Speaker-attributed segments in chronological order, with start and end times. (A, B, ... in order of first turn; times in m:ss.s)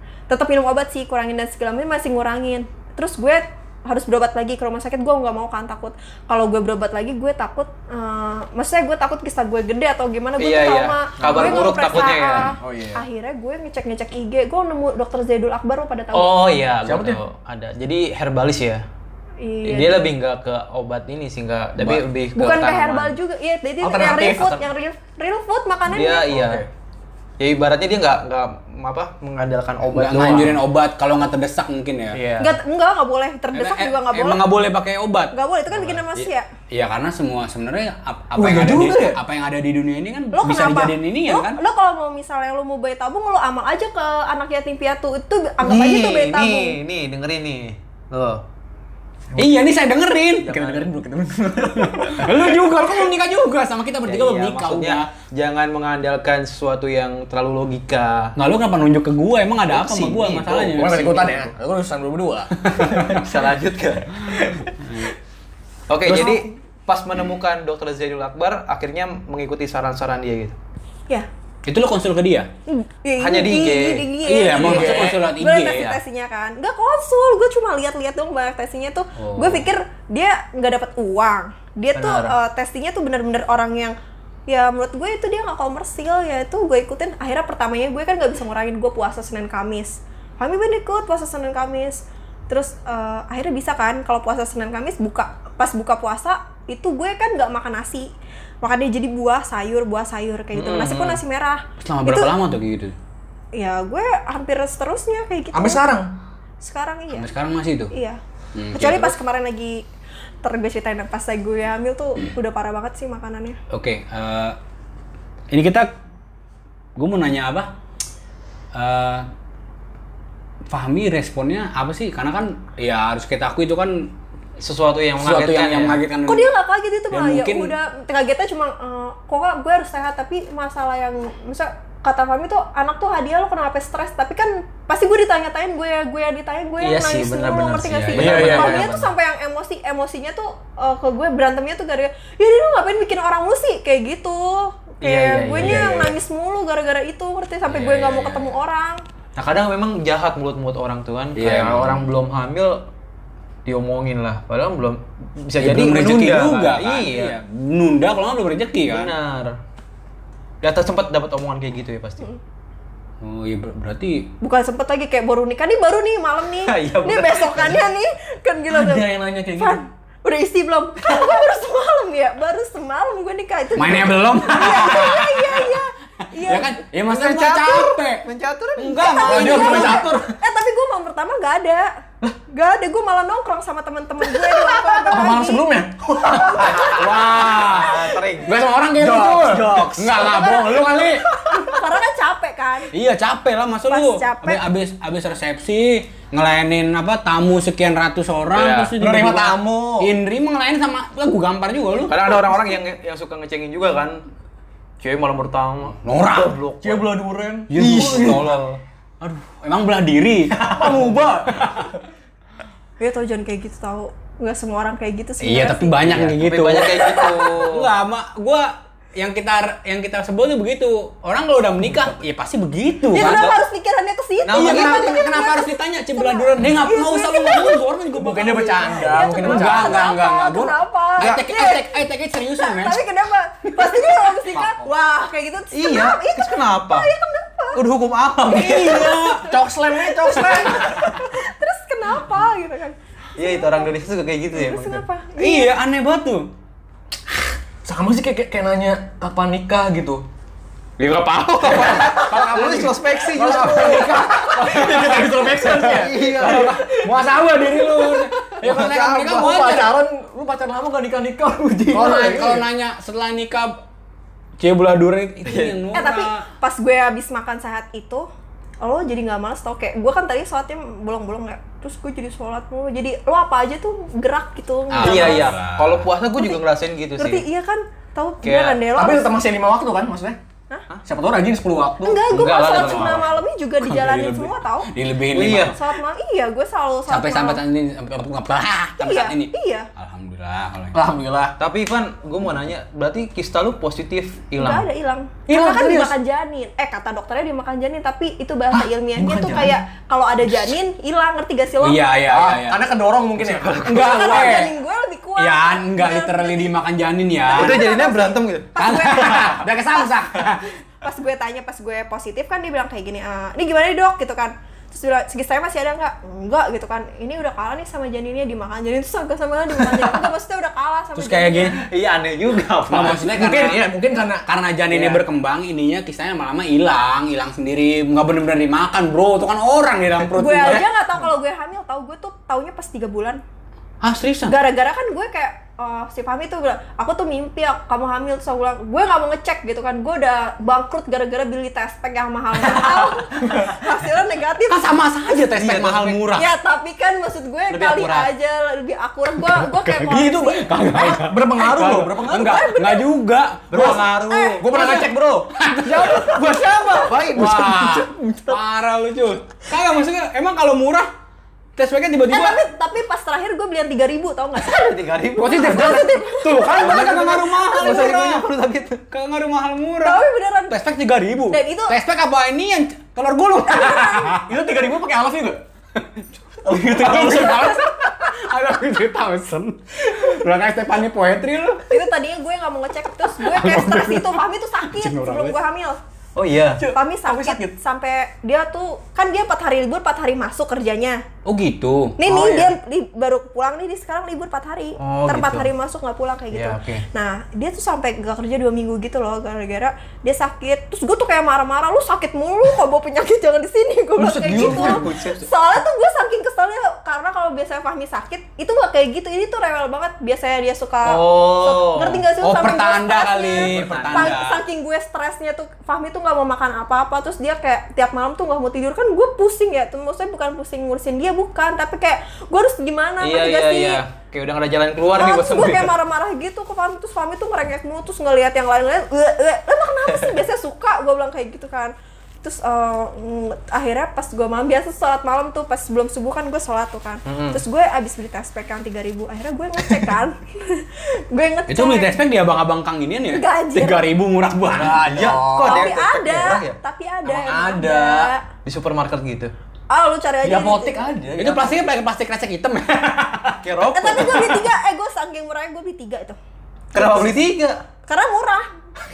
0:00.3-0:16.5 A
0:10.4-0:12.5 B
0:11.2-0:11.8 C
0:12.6-0:13.0 C
0:16.1-0:18.8 B
0:16.8-0:17.2 C
0:19.4-0:20.0 A
0:19.6-0:23.2 B
0:21.8-0:22.0 D
0:22.4-0:26.3 A
0:23.8-0:24.6 C
0:24.3-0:24.6 B
0:25.9-0:26.7 B
0:26.3-0:26.7 C
0:27.4-0:30.6 B
0:29.9-0:32.2 D
0:32.1-0:32.6 B
0:32.4-0:34.4 A
0:33.5-0:41.6 D
0:35.3-0:36.5 A
0:38.3-0:39.2 C
0:40.3-0:46.8 A
0:45.6-0:48.4 B
0:49.4-0:50.6 D
0:50.4-0:50.9 B
0:50.5-0:52.6 C
0:51.7-0:55.1 D
0:54.0-0:58.3 B
0:58.4-1:01.3 D
0:59.7-1:01.5 B
1:00.6-1:03.2 C
1:02.8-1:03.2 D
1:02.8-1:04.8 B
1:04.8-1:05.1 D
1:05.9-1:10.6 B
1:06.1-1:06.4 C
1:11.6-1:12.5 D
1:12.7-1:24.0 A
1:13.2-1:15.9 B
1:14.2-1:16.0 D
1:14.7-1:15.0 C
1:19.2-1:19.6 D
1:21.9-1:22.4 B
1:24.5-1:42.3 A
1:40.5-1:41.2 B
1:41.8-1:42.9 D
1:43.5-1:45.8 A
1:45.5-1:46.1 C
1:46.6-1:47.3 A
1:47.1-1:47.9 D
1:47.9-1:48.2 A
1:48.5-1:49.1 D
1:48.7-1:49.8 A
1:50.4-1:53.6 A
1:53.7-1:54.6 D
1:55.5-1:55.9 D
1:57.0-1:57.7 D
1:58.7-1:59.2 D
2:00.7-2:04.1 D
2:04.6-2:06.0 B
2:05.2-2:06.5 D
2:06.3-2:29.0 A
2:07.1-2:07.7 D
2:16.8-2:19.0 B
2:17.9-2:19.0 D
2:25.0-2:26.1 B
2:27.7-2:28.5 D
2:29.4-2:32.8 B
2:31.3-2:32.1 D
2:33.6-2:37.4 B
2:35.6-2:39.1 D
2:38.9-2:39.6 B
2:40.6-2:42.3 B
2:43.2-2:44.3 D
2:44.4-2:56.8 A
2:46.6-2:47.8 B
2:48.7-2:49.8 C
2:53.8-2:55.8 D
2:56.4-2:58.2 D
2:57.0-2:59.3 B
2:58.8-3:00.1 D
2:59.0-3:02.0 A
2:59.2-3:00.3 C
3:02.5-3:05.6 A
3:04.3-3:07.6 C
3:06.4-3:08.6 B
3:06.6-3:11.3 D
3:08.9-3:10.2 C
3:09.5-3:10.2 B
3:10.2-3:12.9 A
3:11.3-3:11.7 C
3:12.9-3:22.3 D
3:13.9-3:14.6 A
3:18.5-3:18.9 B
3:19.0-3:20.1 C
3:22.1-3:24.2 B
3:25.0-3:27.1 B
3:26.0-3:26.6 D
3:26.8-3:28.5 C
3:27.7-3:28.6 D
3:27.7-3:28.8 B
3:29.2-3:31.0 D
3:30.6-3:31.2 B
3:30.6-3:31.7 C
3:31.5-3:31.9 D
3:33.0-3:36.2 A
3:35.4-3:43.5 D
3:36.0-3:37.9 B
3:43.1-3:43.6 B
3:43.1-3:47.8 A
3:44.4-3:45.1 B
3:44.5-3:53.0 D
3:48.1-3:50.1 C
3:48.9-3:52.0 A
3:52.6-3:57.8 A
3:54.6-3:54.9 B
3:55.7-3:57.1 B
3:57.7-3:59.2 B
3:58.5-4:01.1 D
3:58.5-4:03.9 A
3:59.5-4:00.8 C
4:03.4-4:05.0 B
4:04.5-4:05.7 A
4:05.4-4:06.5 D
4:07.8-4:10.2 C
4:11.0-4:15.1 B
4:11.7-4:20.0 D
4:11.8-4:22.6 C
4:15.7-4:16.8 B
4:21.9-4:23.8 D
4:24.6-4:26.4 D
4:25.5-4:25.8 B
4:25.9-4:28.3 A
4:28.8-4:35.5 A
4:34.9-4:36.1 D
4:35.0-4:37.4 B
4:36.4-4:36.6 A
4:37.2-4:39.3 A
4:38.4-4:38.8 B
4:38.9-4:40.4 C
4:41.0-4:42.8 C
4:42.0-4:44.9 A
4:42.3-4:43.3 B
4:42.7-4:43.2 D
4:43.8-4:45.8 D
4:45.3-4:45.8 B
4:45.6-4:47.6 A
4:47.1-4:51.0 D
4:49.0-4:49.9 A
4:50.9-4:51.6 C
4:51.6-4:54.9 B
4:54.6-5:02.0 A
4:55.5-4:56.2 C
4:58.7-4:59.8 C
5:01.8-5:02.8 D
5:02.3-5:04.3 C
5:03.4-5:04.5 B
5:03.8-5:04.7 D
5:03.8-5:06.7 A
5:05.4-5:08.0 D
5:07.5-5:08.8 B
5:07.5-5:10.0 A
5:08.8-5:10.7 D
5:09.3-5:09.6 B
5:11.0-5:21.8 A
5:19.8-5:20.3 B
5:21.2-5:23.4 B
5:22.9-5:23.9 D
5:23.2-5:24.4 C
5:24.4-5:30.9 D
5:24.9-5:25.2 B
5:30.4-5:33.4 A
5:34.0-5:34.6 D
5:34.5-5:44.9 A
5:44.7-5:46.4 D
5:45.5-5:46.3 B
5:46.3-5:50.8 A
5:47.7-5:48.3 B
5:49.5-6:01.1 D
5:50.1-5:52.7 C
5:52.3-5:53.1 A
5:53.7-5:54.2 B
5:53.7-5:58.6 C
5:54.3-5:54.6 A
5:57.0-5:58.0 B
6:01.8-6:02.6 D
6:02.3-6:05.0 A
6:04.6-6:06.0 B
6:05.4-6:08.5 D
6:05.5-6:08.4 A
6:06.8-6:09.0 B
6:09.1-6:14.5 D
6:10.0-6:10.8 A
6:11.5-6:11.9 A
6:13.6-6:14.4 A
6:14.4-6:15.6 C
6:16.6-6:17.8 B
6:16.7-6:17.7 C
6:16.8-6:21.9 D
6:21.9-6:26.0 A
6:23.4-6:25.6 D
6:26.4-6:26.8 B
6:26.8-6:27.8 C
6:26.9-6:31.2 A
6:31.4-6:32.2 D
6:32.2-7:04.0 A
6:32.3-6:32.7 C
6:35.0-6:35.7 B
6:36.5-6:37.0 B
6:44.2-6:45.1 C
6:44.4-6:45.5 B
6:51.0-6:52.2 B
6:52.4-6:54.6 D
6:53.6-6:54.3 B
7:03.2-7:05.9 B
7:05.1-7:22.1 A
7:17.2-7:17.6 B
7:21.7-7:25.4 D
7:23.3-7:24.0 A
7:24.7-7:26.8 B
7:24.8-7:26.0 C
7:25.5-7:28.4 A
7:27.2-7:28.3 C
7:28.6-7:29.5 B
7:29.9-7:31.0 A
7:30.4-7:31.8 C
7:31.4-7:33.6 D
7:33.6-7:34.7 B
7:33.9-7:36.4 A
7:36.9-7:37.8 B
7:38.1-7:38.7 A